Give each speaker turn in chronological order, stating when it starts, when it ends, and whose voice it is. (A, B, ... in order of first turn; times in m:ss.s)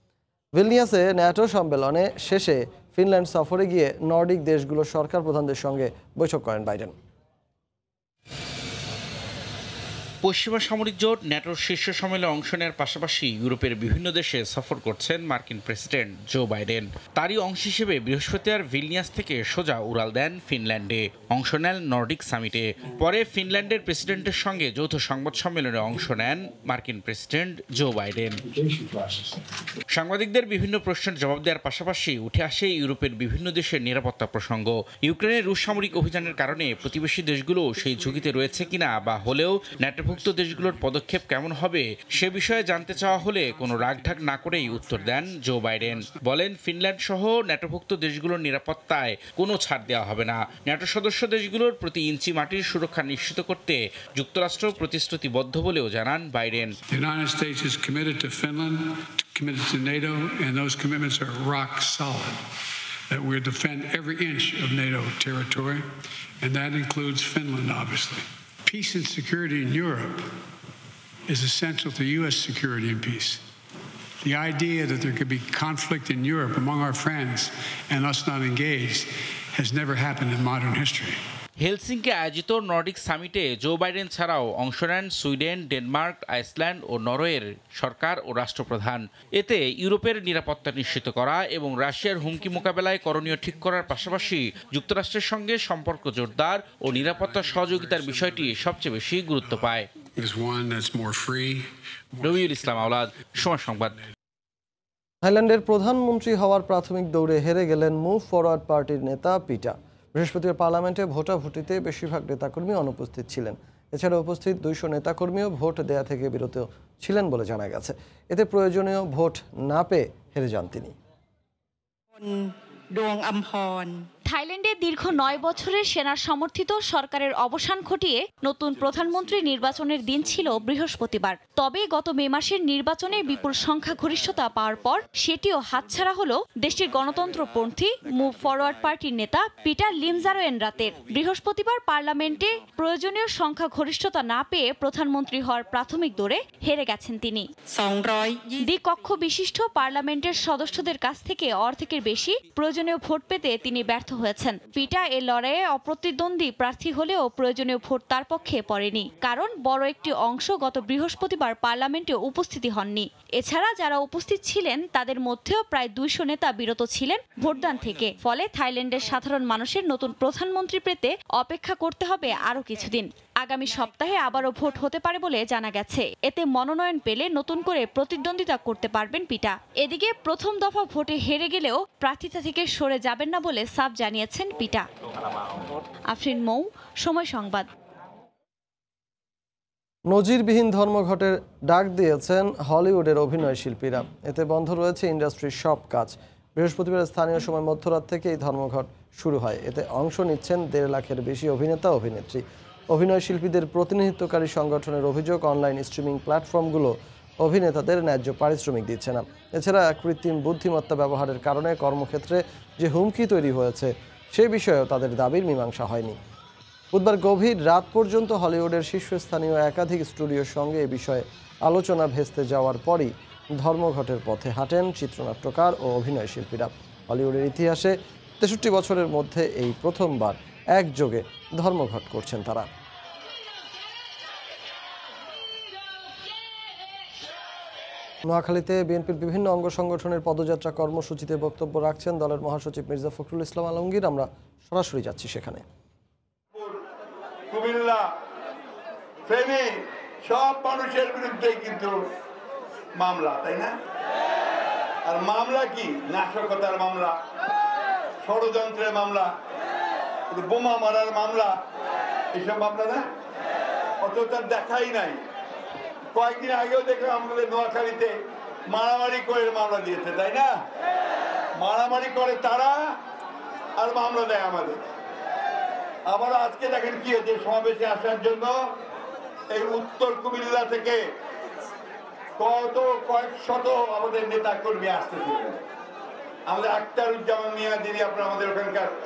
0:00.5-0:06.9 A
0:10.2-0:28.4 B
0:28.7-0:29.4 C
0:29.9-0:56.7 B
0:43.4-0:46.2 C
0:56.9-1:02.4 C
1:03.1-1:05.9 C
1:06.4-1:10.3 C
1:11.3-1:13.4 C
1:14.2-1:21.2 C
1:21.6-1:39.9 B
1:37.3-1:38.5 C
1:40.2-1:42.8 C
1:42.2-1:44.0 B
1:45.2-2:00.9 A
2:02.2-2:04.0 D
2:04.2-2:27.5 E
2:27.7-2:28.7 D
2:28.6-3:04.9 E
3:06.1-3:07.7 E
3:10.1-3:36.2 A
3:36.9-3:52.7 A
3:58.3-4:05.6 A
4:07.5-4:08.1 F
4:09.3-4:09.7 F
4:10.2-4:12.0 F
4:13.0-4:13.7 F
4:15.1-4:17.2 F
4:18.2-4:19.3 F
4:20.3-4:21.6 F
4:22.4-4:23.0 F
4:24.0-4:25.2 F
4:26.1-4:28.1 F
4:28.7-4:30.5 F
4:31.6-4:33.0 F
4:33.8-4:34.8 F
4:36.1-4:38.6 F
4:39.5-4:41.0 F
4:42.4-4:45.6 F
4:46.5-4:48.9 F